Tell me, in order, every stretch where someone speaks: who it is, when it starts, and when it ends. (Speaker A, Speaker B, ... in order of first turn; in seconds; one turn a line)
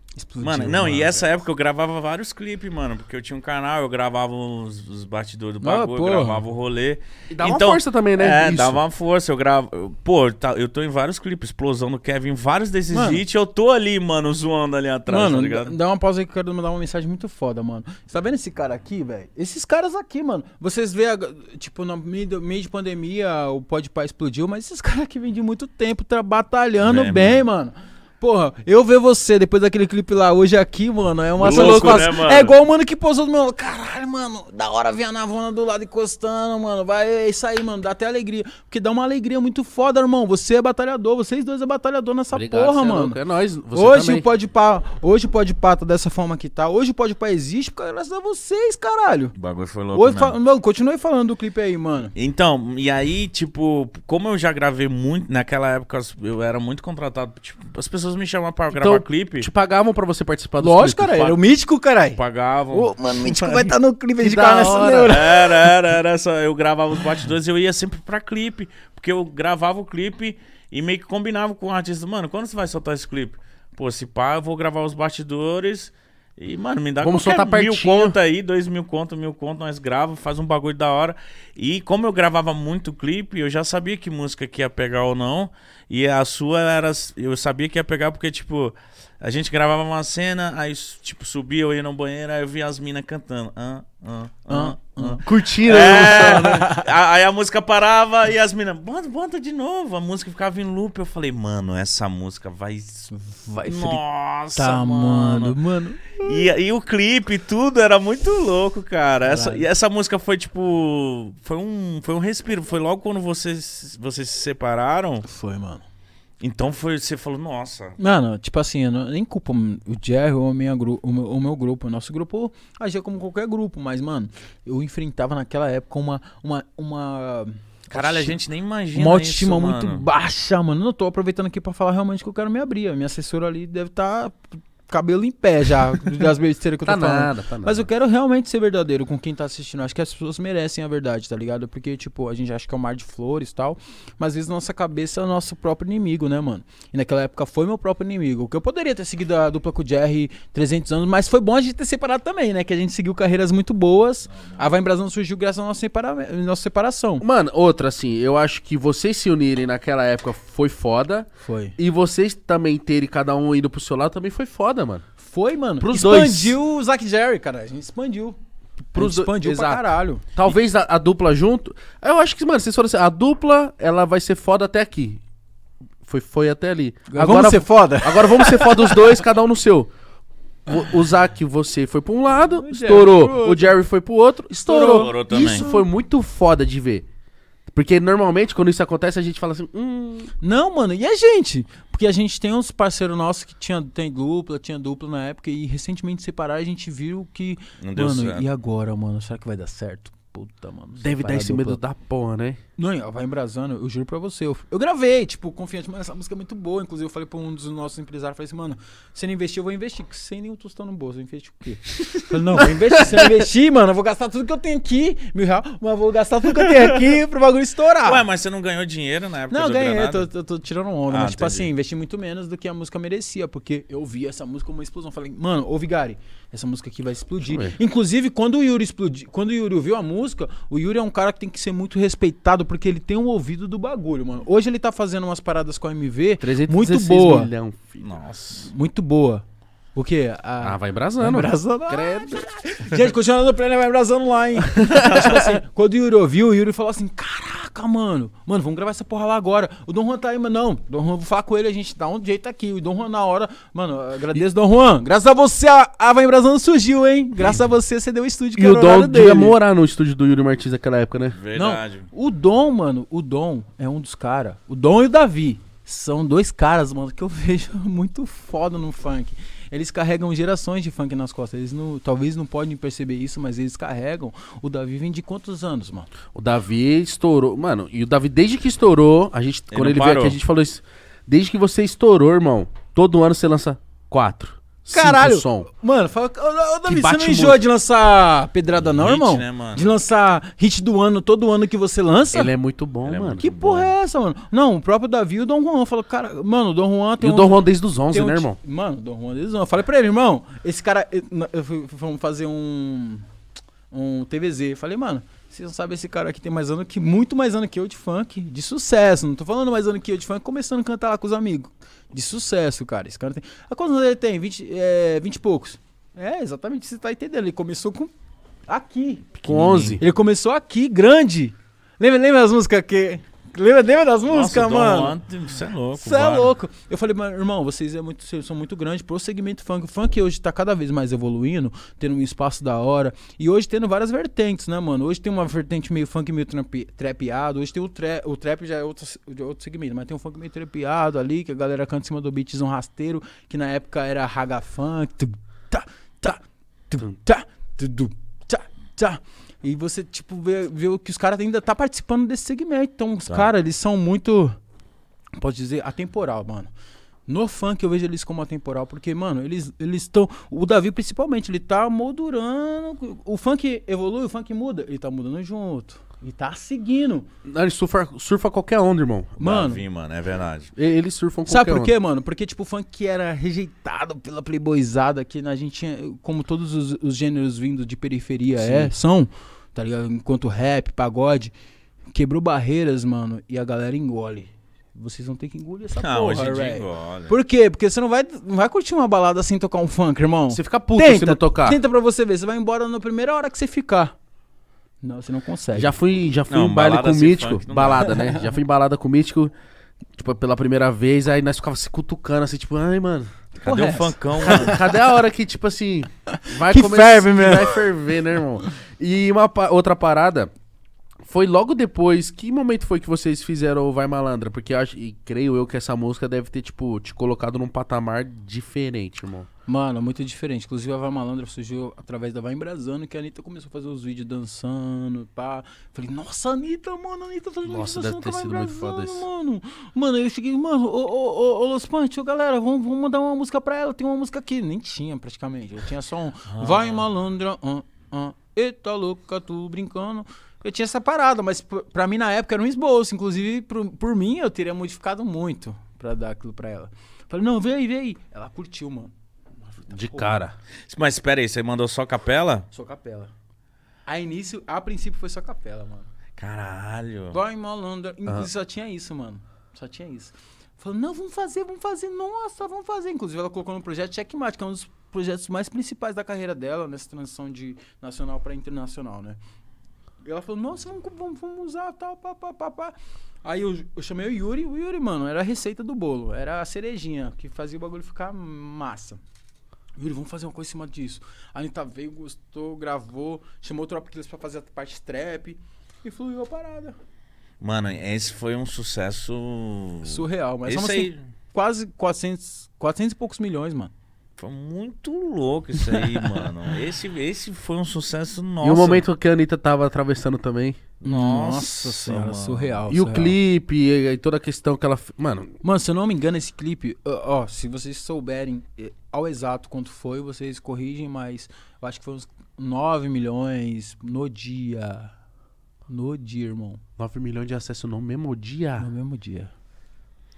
Speaker A: 0.2-1.3
Speaker B: 0.4-15.7
Speaker A: 5.6-6.4
Speaker C: 7.3-8.8
Speaker A: 12.9-13.2
Speaker A: 15.1-43.2
Speaker B: 26.8-27.4
Speaker B: 31.4-32.5
Speaker C: 31.4-32.0
Speaker C: 42.3-44.3
Speaker A: 43.7-49.3
Speaker B: 49.4-50.4
Speaker A: 49.9-52.1
Speaker B: 52.2-59.5
Speaker C: 58.7-61.4
Speaker A: 60.6-62.2
Speaker B: 62.2-63.7
Speaker A: 62.7-65.7
Speaker C: 64.2-65.2
Speaker B: 65.1-103.1
Speaker C: 77.0-78.2
Speaker A: 94.5-95.2
Speaker C: 95.2-96.7
Speaker A: 95.8-96.8
Speaker A: 103.1-104.0
Speaker B: 103.6-105.6
Speaker A: 104.5-106.5
Speaker B: 106.2-115.2
Speaker A: 109.3-109.7
Speaker A: 115.3-115.8
Speaker B: 116.4-118.0
Speaker A: 118.0-128.4
Speaker B: 127.9-130.1
Speaker A: 128.9-157.2
Speaker C: 136.8-137.9
Speaker C: 157.2-165.1
Speaker A: 161.4-161.7
Speaker A: 165.2-168.4
Speaker C: 165.8-166.6
Speaker A: 168.9-170.2
Speaker C: 168.9-175.2
Speaker C: 176.0-179.9
Speaker A: 177.1-179.1
Speaker C: 180.7-187.1
Speaker A: 182.6-183.7
Speaker A: 184.6-185.9
Speaker B: 184.8-185.7
Speaker C: 187.7-190.3
Speaker A: 190.4-201.8
Speaker B: 197.8-198.4
Speaker C: 201.0-202.6
Speaker A: 202.8-218.2
Speaker B: 218.0-220.3
Speaker A: 219.5-237.5
Speaker B: 221.1-221.7
Speaker C: 227.4-227.7
Speaker C: 236.4-238.1
Speaker B: 238.0-238.7
Speaker A: 238.6-259.6
Speaker C: 240.6-242.4
Speaker C: 244.8-245.2
Speaker B: 245.1-245.4
Speaker C: 258.6-261.4
Speaker B: 261.4-262.1
Speaker A: 261.5-276.1
Speaker C: 276.3-285.7
Speaker B: 279.7-280.4
Speaker A: 284.9-292.5
Speaker C: 286.9-287.6
Speaker B: 288.8-289.9
Speaker C: 292.3-293.4
Speaker B: 293.1-293.9
Speaker A: 293.4-303.2
Speaker C: 297.2-298.6
Speaker A: 303.9-318.1
Speaker A: 318.7-319.3
Speaker C: 319.4-320.0
Speaker B: 319.4-320.0
Speaker A: 320.0-325.2
Speaker B: 324.3-326.5
Speaker A: 326.0-354.6
Speaker A: 355.4-356.7
Speaker A: 357.3-367.3
Speaker C: 367.4-369.4
Speaker B: 369.4-370.7
Speaker A: 369.4-369.8
Speaker C: 370.8-371.9
Speaker A: 371.5-381.5
Speaker C: 378.6-378.9
Speaker A: 382.1-394.1
Speaker B: 385.9-387.3
Speaker C: 390.5-391.8
Speaker A: 395.0-395.9
Speaker C: 395.7-399.5
Speaker B: 396.5-398.1
Speaker C: 400.2-403.3
Speaker A: 403.6-404.6
Speaker B: 403.6-404.9
Speaker C: 404.4-410.5
Speaker A: 406.4-407.8
Speaker C: 411.2-419.5
Speaker A: 419.7-450.4
Speaker C: 427.7-429.2
Speaker B: 436.5-437.1
Speaker C: 449.9-450.6
Speaker B: 450.9-452.7
Speaker A: 452.7-453.3
Speaker A: 454.1-456.1
Speaker B: 456.4-457.4
Speaker A: 457.3-469.4
Speaker A: 470.2-479.2
Speaker A: 480.0-487.0
Speaker B: 487.6-491.2
Speaker A: 490.0-493.9
Speaker B: 494.4-499.0
Speaker A: 495.9-496.3
Speaker C: 498.6-500.8
Speaker B: 501.0-502.8
Speaker A: 501.0-503.4
Speaker C: 502.9-505.5
Speaker A: 505.6-515.1
Speaker A: 515.9-516.8
Speaker C: 517.0-518.9
Speaker A: 518.8-519.5